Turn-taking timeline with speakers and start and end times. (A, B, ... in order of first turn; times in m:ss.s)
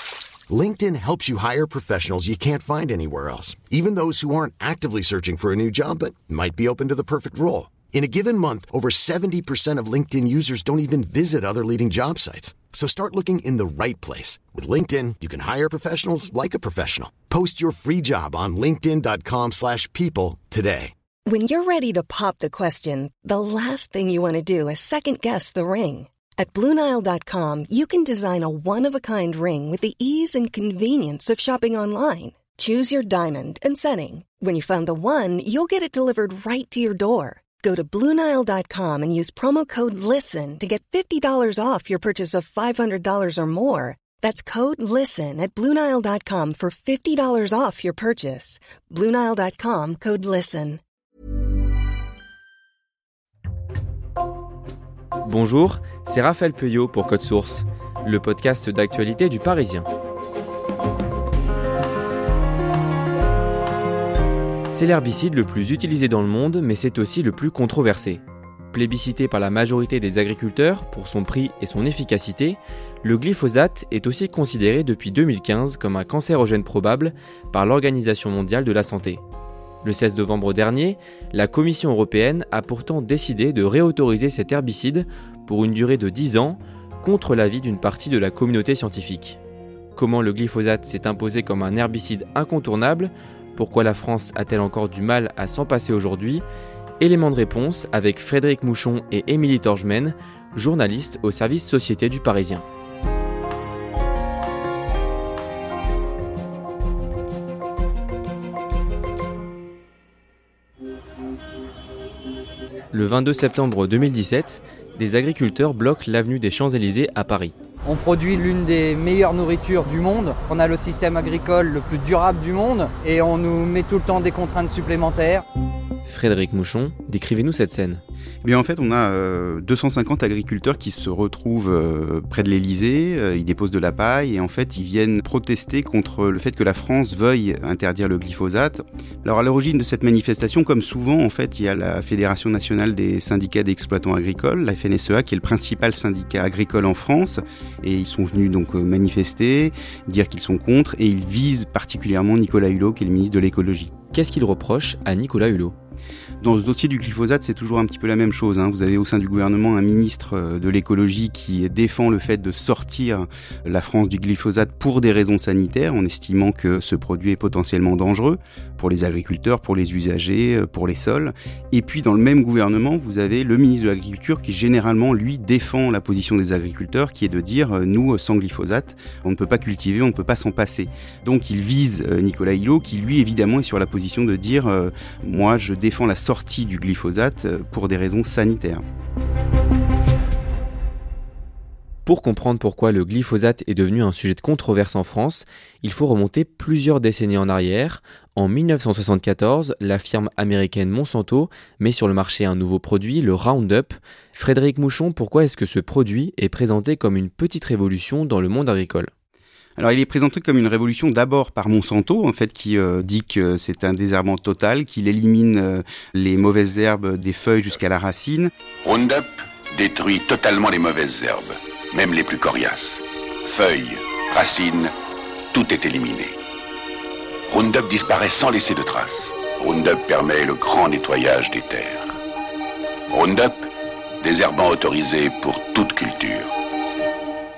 0:00.5-0:20.9 A
0:21.3-0:50.8 B
0:55.2-0:59.9 C
1:04.7-1:19.2 C
1:19.8-1:29.4 C
1:30.0-1:36.4 C
1:37.0-1:42.6 C
1:52.9-1:57.6 C
1:57.8-2:05.4 D
2:06.1-2:08.0 C
2:08.4-2:33.9 E
2:34.1-2:35.8 C
2:36.4-3:08.8 E
3:12.1-3:29.1 C
3:29.8-3:38.5 E
3:38.8-3:44.9 F
3:45.5-3:46.4 F
3:47.5-3:52.2 F
3:53.1-3:53.7 F
3:54.2-3:56.5 F